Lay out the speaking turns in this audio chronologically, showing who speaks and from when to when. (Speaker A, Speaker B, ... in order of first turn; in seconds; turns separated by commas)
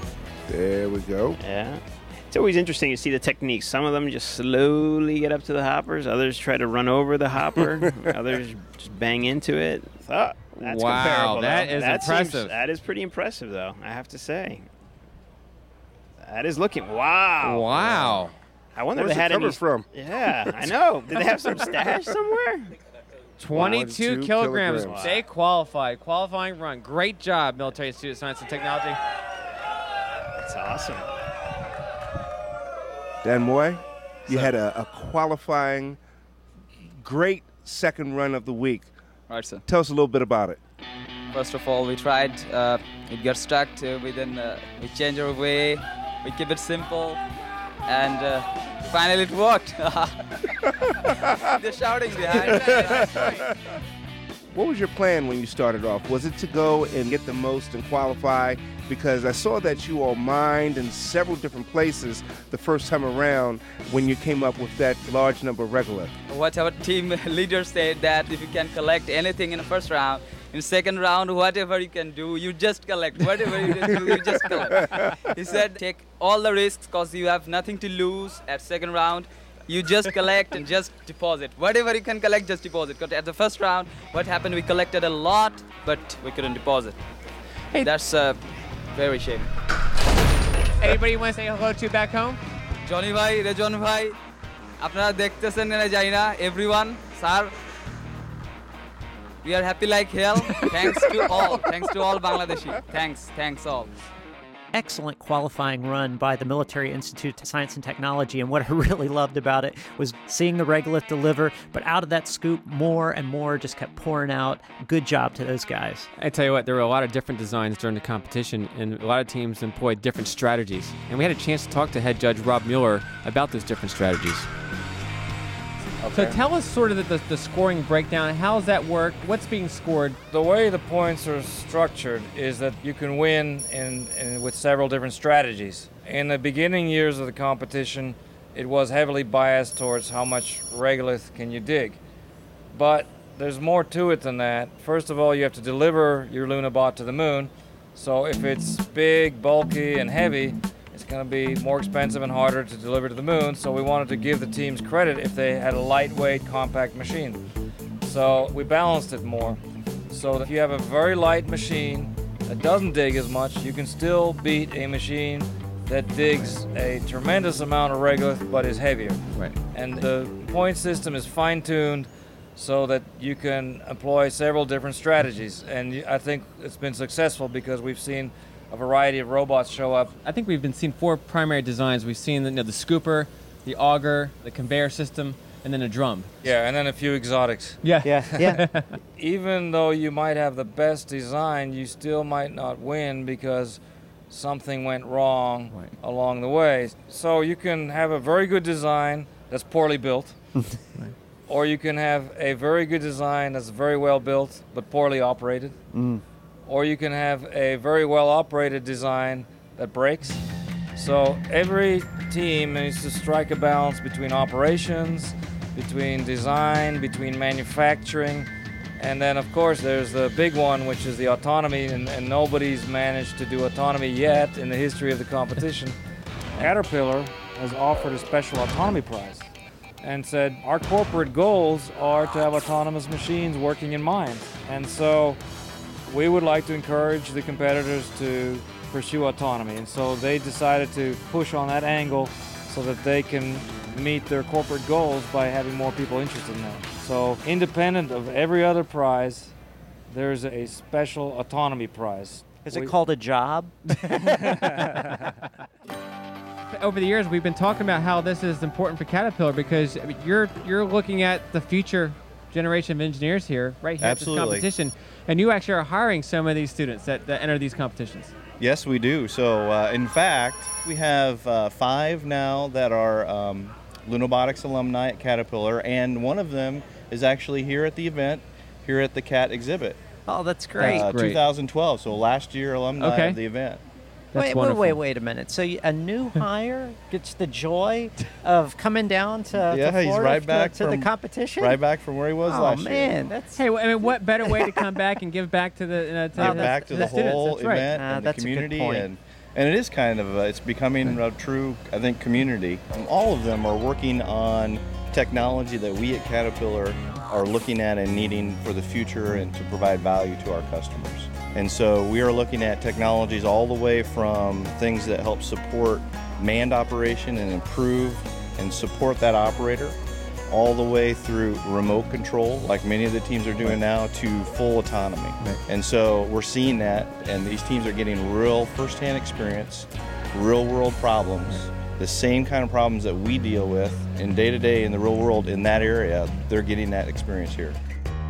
Speaker A: 0.5-1.4, Speaker B: 1.4-14.7, Speaker C: 10.6-12.5, Speaker B: 16.2-18.0, Speaker C: 17.4-18.3, Speaker A: 17.7-18.2, Speaker B: 18.7-22.7, Speaker A: 18.9-19.9, Speaker C: 23.4-29.0, Speaker A: 23.5-25.1, Speaker B: 24.8-25.2, Speaker B: 30.4-31.1, Speaker A: 33.2-36.0, Speaker A: 37.0-38.9, Speaker D: 39.3-39.6, Speaker A: 39.6-40.6, Speaker D: 41.3-47.2, Speaker D: 47.9-50.2, Speaker D: 51.4-53.2, Speaker C: 52.3-53.3, Speaker A: 52.5-53.5, Speaker A: 54.5-66.1, Speaker D: 66.3-87.0, Speaker D: 87.8-89.5, Speaker C: 90.8-92.4, Speaker D: 92.8-94.2, Speaker D: 94.8-97.5, Speaker D: 99.4-103.9, Speaker E: 104.7-116.1, Speaker C: 116.2-124.5, Speaker C: 126.1-130.2, Speaker F: 130.3-142.0, Speaker F: 142.7-157.4, Speaker F: 158.0-159.6, Speaker F: 160.1-180.1, Speaker C: 180.2-186.3, Speaker F: 186.4-188.5, Speaker C: 187.8-188.9, Speaker E: 188.0-188.7, Speaker F: 189.2-193.8, Speaker F: 194.3-200.3, Speaker F: 201.5-205.8, Speaker E: 205.9-206.2, Speaker F: 206.7-210.4, Speaker F: 210.9-225.9, Speaker F: 226.6-229.5, Speaker F: 230.0-235.4, Speaker F: 236.1-249.5, Speaker F: 250.1-252.9, Speaker E: 252.6-255.1, Speaker C: 256.7-268.3, Speaker G: 264.0-264.7, Speaker G: 268.6-280.0, Speaker E: 280.3-281.1, Speaker C: 280.8-281.4, Speaker G: 280.8-283.8, Speaker C: 283.0-283.4, Speaker C: 284.3-285.0, Speaker E: 284.3-291.8, Speaker G: 289.5-293.2, Speaker E: 292.4-293.6, Speaker C: 293.6-297.9, Speaker G: 296.4-319.9, Speaker E: 296.4-297.3, Speaker E: 297.9-299.1, Speaker G: 320.5-337.8